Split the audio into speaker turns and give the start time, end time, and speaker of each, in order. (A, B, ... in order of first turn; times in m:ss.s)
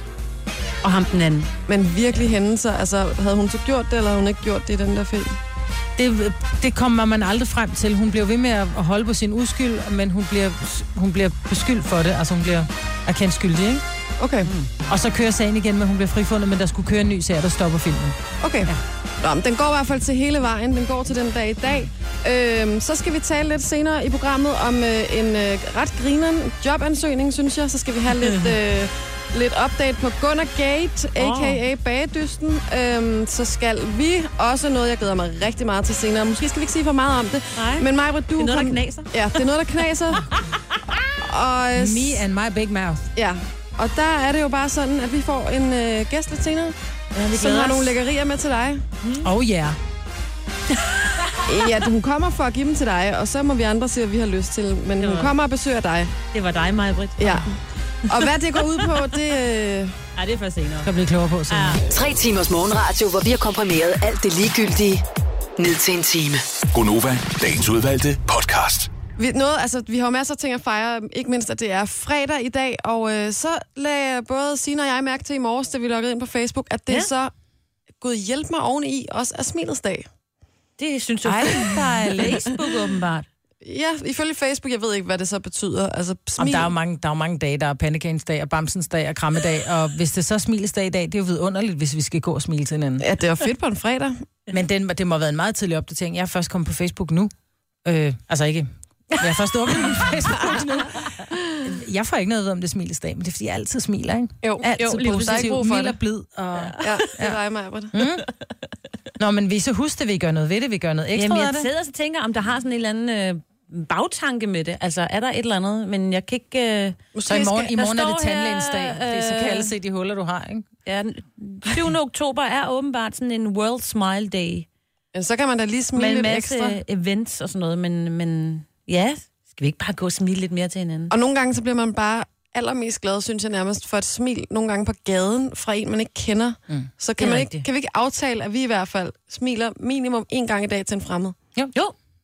0:00.8-0:01.5 A
0:01.7-0:05.4 B
0:06.0-0:13.8 C
0:14.2-0:14.5 B
0:14.5-0:14.7 A
0:14.9-0:18.2 C
0:18.4-0:40.3 B
0:28.2-0:28.6 A
0:31.2-0:31.6 A
0:37.6-0:39.4 A
0:41.2-0:42.2 B
0:41.8-0:43.1 C
0:43.2-0:46.8 B
0:47.2-0:48.0 A
0:47.3-0:48.9 B
0:49.0-0:49.3 A
0:49.2-0:49.8 C
0:50.8-0:51.5 A
0:51.4-0:56.2 B
0:55.0-0:55.3 A
0:56.3-0:57.5 A
0:57.2-0:57.6 B
0:58.1-1:00.0 B
0:58.1-0:59.1 A
1:00.2-1:00.9 A
1:00.8-1:01.8 C
1:01.5-1:01.8 A
1:01.9-1:05.0 D
1:05.6-1:06.4 D
1:06.7-1:08.9 E
1:09.2-1:17.3 B
1:18.0-1:20.1 B
1:20.8-1:23.3 A
1:21.2-1:22.4 C
1:23.6-1:26.7 B
1:26.4-1:33.1 C
1:33.0-1:34.2 B
1:34.5-1:37.3 C
1:37.8-1:47.4 C
1:44.4-1:46.0 B
1:44.9-1:45.6 A
1:46.6-1:47.0 A
1:46.8-1:48.0 B
1:47.9-1:48.3 C
1:49.2-1:51.7 C
1:51.2-1:57.0 A
1:57.2-1:57.7 B
1:57.3-2:00.7 C
1:57.8-1:59.7 A
2:00.9-2:04.7 A
2:05.1-2:06.8 B
2:06.0-2:11.1 A
2:11.1-2:21.4 B
2:17.2-2:17.7 A